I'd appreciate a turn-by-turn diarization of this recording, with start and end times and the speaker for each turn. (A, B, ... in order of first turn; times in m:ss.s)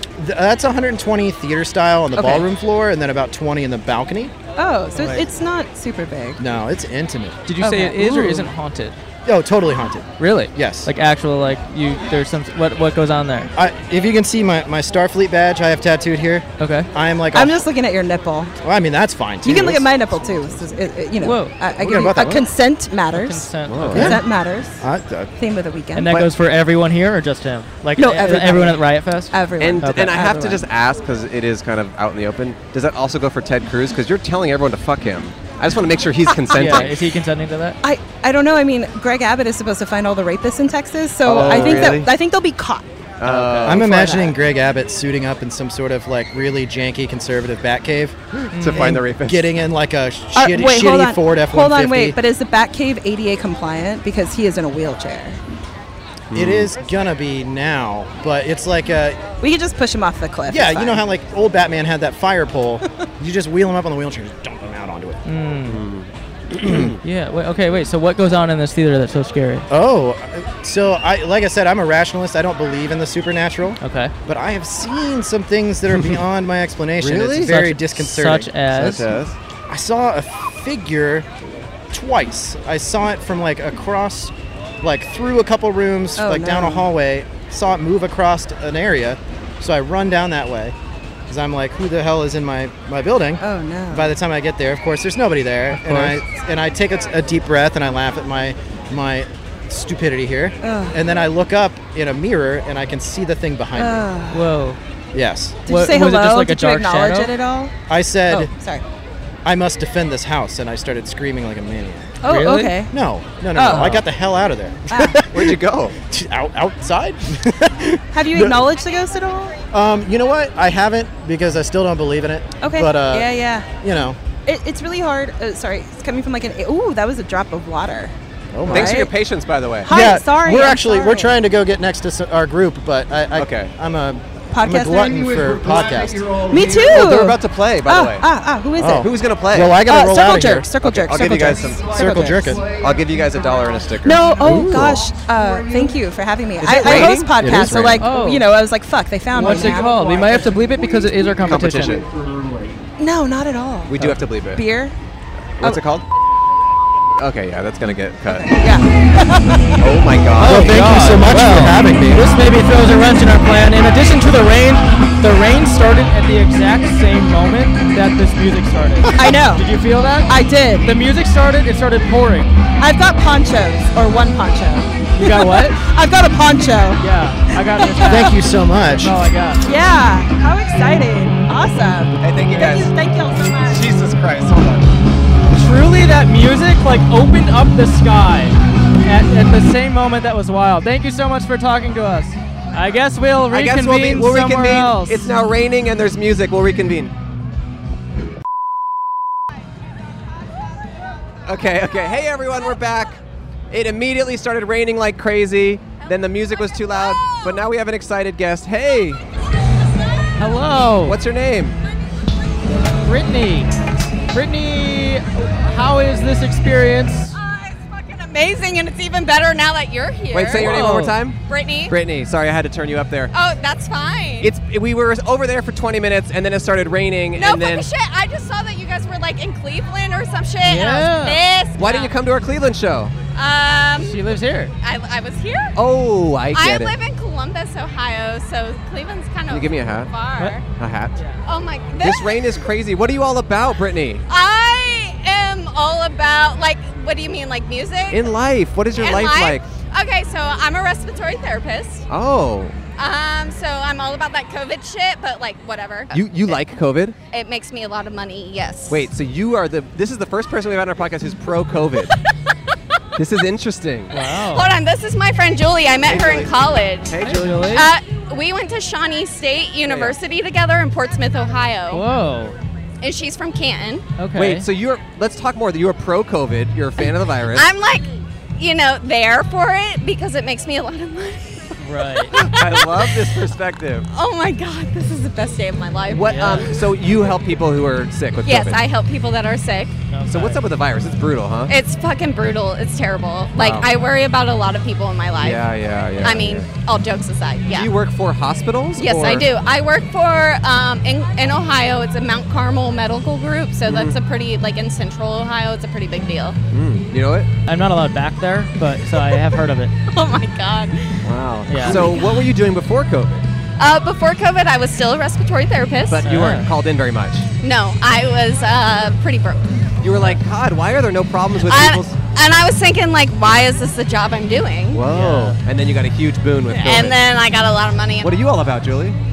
0:00.2-0:04.3 A
0:02.2-0:02.4 B
0:04.6-0:06.4 B
0:04.9-0:05.2 C
0:06.4-0:07.4 A
0:07.5-0:09.0 C
0:07.6-0:08.5 B
0:09.2-0:10.9 A
0:10.2-0:13.5 C
0:13.6-0:17.7 A
0:16.6-0:16.9 C
0:17.3-0:18.5 B
0:18.6-0:20.6 A
0:19.4-0:24.8 B
0:21.2-0:21.6 C
0:21.8-0:22.5 A
0:23.1-0:24.2 C
0:23.7-0:24.2 D
0:23.9-0:24.3 A
0:24.8-0:25.3 A
0:25.4-0:26.2 B
0:26.0-0:30.3 C
0:28.0-0:30.6 B
0:29.6-0:37.0 D
0:36.5-0:37.8 C
0:37.8-0:42.9 B
0:41.2-0:42.1 D
0:41.3-0:42.0 A
0:41.6-0:41.8 C
0:43.2-0:43.9 D
0:43.2-0:52.2 A
0:43.6-0:44.4 B
0:48.3-0:49.5 D
0:48.5-0:49.0 C
0:50.4-0:55.4 B
0:56.3-0:56.7 D
0:56.3-0:59.2 A
0:59.4-1:01.0 B
1:00.5-1:05.2 A
1:05.2-1:05.8 C
1:05.6-1:07.0 D
1:06.6-1:07.0 A
1:07.0-1:09.7 C
1:09.7-1:18.6 A
1:13.8-1:14.1 C
1:17.0-1:17.6 D
1:17.4-1:19.1 C
1:18.7-1:19.4 D
1:19.7-1:21.3 A
1:21.9-1:30.8 A
1:26.2-1:26.9 B
1:31.3-1:44.1 A
1:33.4-1:34.1 B
1:35.7-1:36.2 C
1:40.6-1:41.0 B
1:43.8-1:44.5 B
1:44.3-1:44.8 C
1:45.1-1:45.6 A
1:45.7-1:47.7 B
1:45.7-1:47.3 C
1:47.9-1:48.5 A
1:48.3-1:48.8 B
1:49.4-1:52.3 A
1:52.2-1:52.9 B
1:52.3-1:52.7 C
1:52.9-1:58.6 A
1:53.6-1:54.0 B
1:53.7-1:54.0 C
1:54.9-1:55.2 B
1:55.3-1:56.0 D
1:58.1-1:59.6 B
1:59.7-2:04.2 A
2:02.6-2:03.7 B
2:04.4-2:08.2 B
2:08.5-2:09.1 A
2:08.7-2:09.2 B
2:08.7-2:09.9 D
2:09.8-2:11.4 B
2:09.9-2:16.4 A
2:13.4-2:13.7 D
2:14.5-2:15.3 B
2:16.5-2:19.1 B
2:16.8-2:18.3 D
2:18.8-2:20.7 A
2:19.0-2:19.8 D
2:19.8-2:22.7 B
2:20.8-2:22.0 D
2:21.2-2:22.7 A
2:22.7-2:25.0 D
2:24.0-2:30.4 B
2:24.4-2:25.0 A
2:26.6-2:28.0 D
2:27.4-2:28.0 A
2:28.0-2:28.5 C
2:29.3-2:32.0 C
2:31.4-2:32.1 D
2:33.0-2:35.0 B
2:33.9-2:34.6 D
2:35.6-2:36.0 D
2:37.2-2:38.6 D
2:38.3-2:39.6 B
2:39.8-2:40.7 D
2:40.4-2:52.5 C
2:40.4-2:42.3 A
2:49.2-2:49.7 B
2:50.3-2:50.9 B
2:52.8-2:57.0 B
2:55.2-2:55.8 C
2:57.0-2:58.4 C
2:57.8-2:58.3 B
2:58.0-2:59.2 A
2:58.9-2:59.6 C
2:59.6-3:03.9 B
3:02.2-3:02.9 D
3:03.6-3:04.9 D
3:05.5-3:15.3 C
3:13.5-3:17.1 D
3:21.5-3:29.2 D
3:27.2-3:27.5 E
3:30.4-3:31.2 C
3:31.0-3:31.8 D
3:33.0-3:33.7 C
3:34.3-3:37.4 C
3:37.4-3:40.8 E
3:40.3-3:43.3 D
3:40.6-3:41.2 C
3:41.5-3:42.0 E
3:43.3-3:44.5 E
3:44.4-3:47.9 D
3:47.4-3:52.2 E
3:50.6-3:51.4 C
3:51.8-3:53.2 D
3:53.4-3:55.8 E
3:54.0-3:54.7 C
3:55.8-3:56.9 D
3:56.5-4:00.6 E
3:59.5-4:00.1 D
4:00.7-4:01.2 D
4:01.4-4:02.7 E
4:02.0-4:04.2 D
4:04.3-4:08.4 E
4:08.1-4:09.6 D
4:08.9-4:12.1 E
4:12.1-4:12.8 D
4:13.0-4:16.6 E
4:16.1-4:17.2 D
4:17.3-4:19.1 E
4:18.9-4:22.1 D
4:23.2-4:24.1 D
4:24.1-4:24.7 C
4:24.4-4:32.1 E
4:26.0-4:26.5 D
4:27.1-4:27.7 D
4:27.2-4:27.9 C
4:29.9-4:30.2 D
4:31.9-4:32.6 C
4:33.0-4:34.1 E
4:34.2-4:34.7 C
4:34.3-4:37.7 D
4:37.0-4:43.4 E
4:41.8-4:42.3 C
4:42.3-4:44.1 D
4:44.1-4:47.1 E
4:46.1-4:48.8 D
4:46.2-4:46.7 C
4:48.4-4:50.0 E
4:50.1-4:50.6 C
4:50.3-4:51.7 D
4:51.7-4:55.7 E
4:53.6-4:53.9 D
4:55.4-4:56.7 D
4:56.2-4:57.9 E
4:57.7-4:59.5 D
4:59.0-5:06.6 E
5:03.9-5:04.2 D
5:06.7-5:07.5 D
5:07.7-5:09.9 C
5:10.1-5:11.2 E
5:11.2-5:13.4 D
5:11.7-5:12.1 C
5:11.8-5:12.5 E
5:13.8-5:16.3 E
5:16.1-5:17.5 D
5:16.2-5:16.7 C
5:17.6-5:19.9 E
5:20.0-5:22.2 D
5:21.6-5:25.1 E
5:24.9-5:27.2 D
5:25.1-5:25.6 C
5:26.7-5:28.4 E
5:28.2-5:29.2 D